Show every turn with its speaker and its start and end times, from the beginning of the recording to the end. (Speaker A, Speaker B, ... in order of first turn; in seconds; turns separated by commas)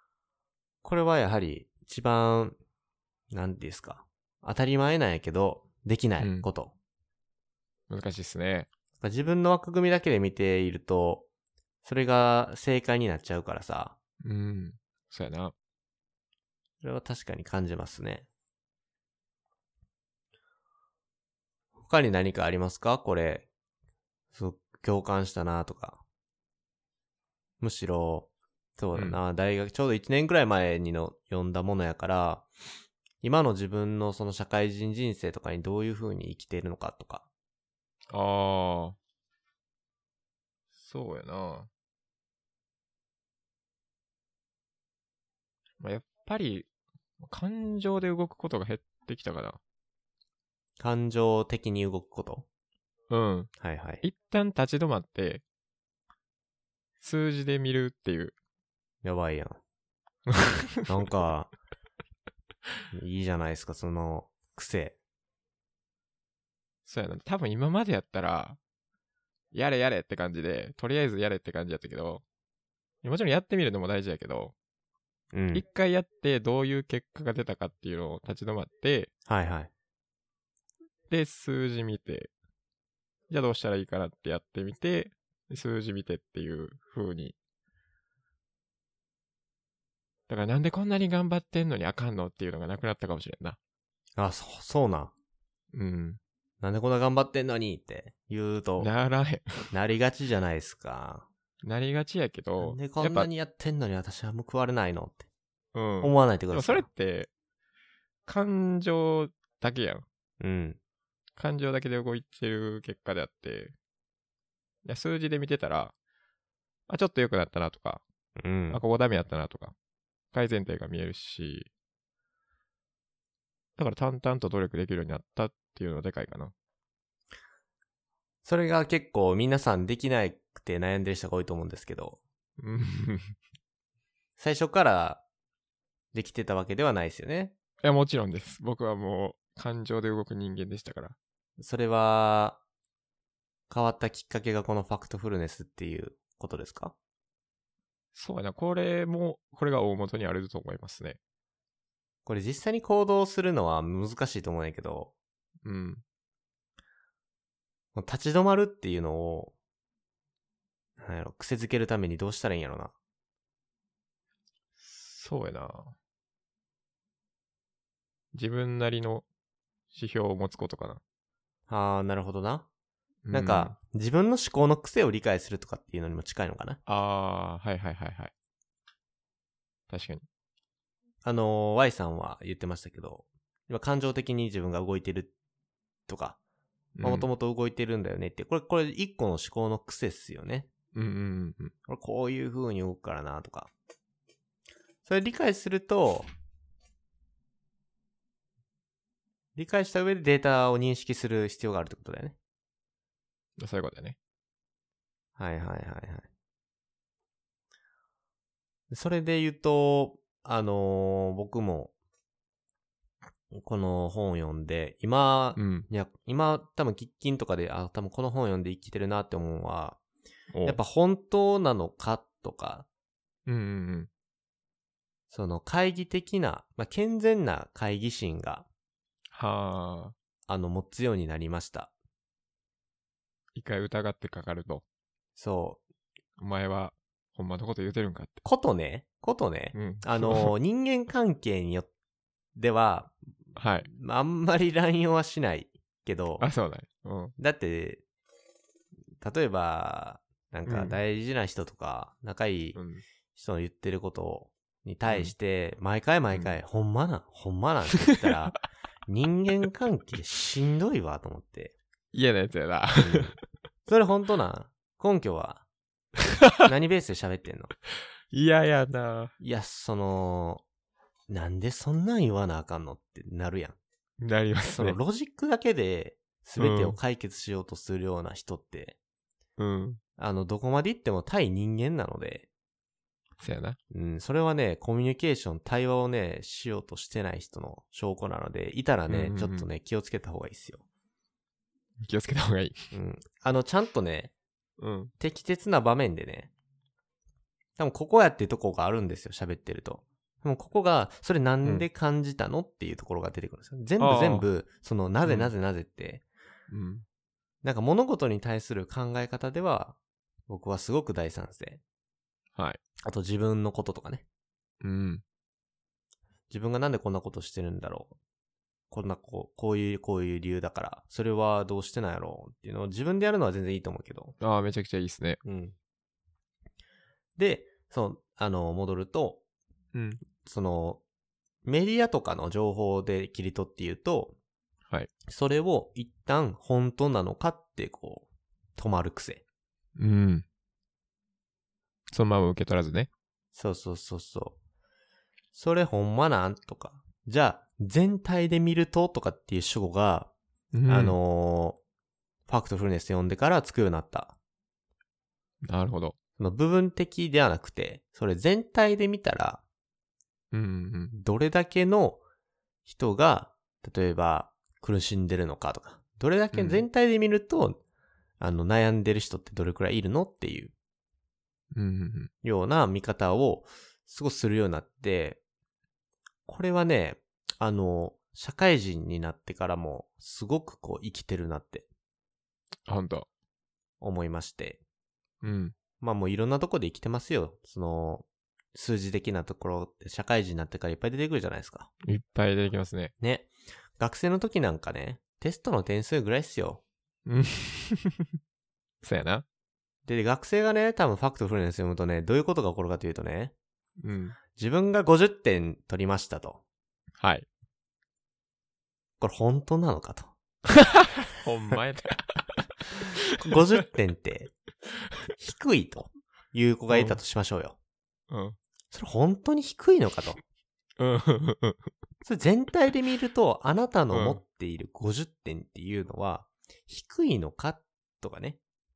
Speaker A: 0.8-2.6, Speaker A: 3.3-6.7, Speaker B: 6.2-6.5, Speaker B: 7.9-8.7, Speaker A: 9.0-11.2, Speaker A: 11.8-14.0, Speaker B: 14.2-15.5, Speaker A: 16.8-18.3, Speaker A: 21.8-23.5, Speaker A: 24.3-26.0, Speaker A: 27.6-32.5, Speaker A: 33.2-37.2, Speaker B: 38.1-39.0, Speaker B: 40.7-41.7, Speaker B: 45.8-46.7, Speaker B: 47.2-49.6, Speaker A: 50.8-52.5, Speaker B: 53.1-53.5, Speaker A: 53.6-54.0, Speaker B: 54.0-55.4, Speaker B: 57.0-58.3, Speaker A: 59.0-59.6, Speaker B: 60.3-60.9, Speaker A: 60.9-61.5, Speaker A: 62.9-65.0, Speaker B: 66.8-68.6, Speaker B: 69.5-72.2, Speaker B: 73.0-74.5, Speaker A: 75.3-75.6, Speaker B: 75.5-79.1, Speaker A: 79.3-79.7, Speaker B: 81.1-82.3, Speaker B: 83.3-87.3, Speaker B: 90.3-93.6, Speaker A: 94.2-95.1, Speaker B: 95.7-96.2, Speaker A: 96.6-98.9, Speaker B: 98.8-99.7, Speaker A: 99.7-101.3, Speaker B: 101.6-103.3, Speaker A: 102.6-105.2, Speaker B: 105.7-107.3, Speaker A: 106.0-106.9, Speaker B: 108.2-110.0, Speaker A: 110.4-110.8, Speaker B: 111.4-113.7, Speaker B: 114.8-115.9, Speaker B: 116.9-118.0, Speaker A: 118.4-118.8, Speaker B: 118.7-119.7, Speaker B: 120.3-121.7, Speaker B: 123.8-126.5, Speaker A: 128.4-132.2, Speaker B: 132.6-133.3, Speaker A: 134.4-135.2, Speaker A: 136.1-137.5, Speaker B: 137.8-141.2, Speaker A: 141.6-142.6, Speaker A: 143.7-146.9, Speaker B: 148.1-151.2, Speaker A: 152.2-155.1, Speaker B: 155.6-156.0, Speaker A: 157.9-159.5, Speaker A: 161.0-162.9, Speaker B: 164.8-165.9, Speaker B: 168.3-169.2, Speaker B: 169.9-171.0, Speaker A: 171.7-172.7, Speaker B: 173.2-173.8, Speaker A: 173.3-176.8, Speaker B: 176.8-178.3, Speaker B: 179.9-180.2, Speaker A: 181.2-185.3, Speaker A: 186.1-186.4, Speaker B: 187.0-187.3, Speaker A: 187.0-190.7, Speaker B: 190.9-191.7, Speaker A: 191.8-193.7, Speaker A: 195.0-196.3, Speaker A: 199.6-202.3, Speaker B: 203.6-204.2, Speaker A: 205.4-206.3, Speaker A: 208.9-211.9, Speaker A: 213.5-220.0, Speaker B: 215.6-215.9, Speaker B: 220.5-220.8, Speaker A: 220.6-222.9, Speaker B: 223.4-224.1, Speaker A: 225.3-228.7, Speaker B: 229.3-230.1, Speaker A: 230.5-231.9, Speaker B: 233.5-234.8, Speaker A: 235.4-235.8, Speaker B: 236.4-238.4, Speaker A: 238.4-241.9, Speaker B: 239.7-240.5, Speaker A: 242.6-243.1, Speaker B: 243.6-243.9, Speaker A: 243.8-246.5, Speaker B: 246.4-247.3, Speaker A: 247.4-248.0, Speaker A: 249.2-252.8, Speaker B: 250.7-251.0, Speaker B: 252.7-253.0, Speaker A: 253.3-261.7, Speaker B: 255.1-255.3, Speaker B: 262.1-263.3, Speaker A: 263.0-263.3, Speaker A: 263.9-265.6, Speaker A: 266.6-267.7, Speaker B: 268.3-269.3, Speaker A: 269.4-270.6, Speaker A: 271.3-273.8, Speaker B: 274.2-275.0, Speaker A: 274.7-278.9, Speaker B: 276.6-277.0, Speaker B: 279.6-280.0, Speaker A: 280.2-282.5, Speaker B: 283.4-283.8, Speaker A: 283.9-290.8, Speaker B: 289.1-289.7, Speaker B: 292.0-292.8, Speaker A: 292.9-294.3, Speaker B: 294.8-295.1, Speaker A: 295.2-296.5, Speaker A: 297.8-306.2, Speaker B: 304.0-304.5, Speaker B: 305.2-305.5, Speaker B: 306.7-307.0, Speaker A: 307.6-310.0, Speaker A: 310.5-311.8, Speaker A: 313.0-314.2, Speaker B: 314.8-315.2, Speaker A: 316.5-318.1, Speaker A: 318.9-324.3, Speaker B: 324.4-325.4, Speaker A: 325.4-325.7, Speaker A: 327.4-329.4, Speaker B: 329.9-330.2, Speaker A: 330.4-331.0, Speaker A: 331.6-334.4, Speaker A: 335.3-339.4, Speaker B: 339.9-340.4, Speaker B: 342.1-343.1, Speaker A: 343.5-344.6, Speaker A: 345.5-350.3, Speaker B: 350.7-351.1, Speaker A: 350.9-351.8, Speaker A: 352.5-354.4, Speaker B: 355.6-356.1, Speaker A: 356.4-359.6, Speaker B: 360.5-361.1, Speaker A: 361.1-362.2, Speaker A: 362.9-367.8, Speaker B: 366.5-366.8, Speaker A: 368.4-370.7, Speaker B: 371.7-372.3, Speaker A: 372.4-375.4, Speaker A: 376.4-381.9, Speaker B: 382.9-383.3, Speaker A: 384.0-384.8, Speaker B: 385.4-385.7, Speaker A: 386.0-391.9, Speaker B: 392.0-393.1, Speaker A: 393.2-396.8, Speaker B: 397.2-398.3, Speaker B: 399.0-399.4, Speaker A: 400.1-403.5, Speaker B: 404.0-404.4, Speaker A: 404.5-406.6, Speaker B: 407.2-407.5, Speaker A: 409.2-410.3, Speaker B: 410.8-413.4, Speaker A: 413.4-414.5, Speaker A: 415.4-417.8, Speaker B: 416.9-417.2, Speaker B: 418.3-418.6, Speaker A: 418.9-420.4, Speaker B: 421.0-421.9, Speaker A: 422.2-428.6, Speaker B: 424.1-424.4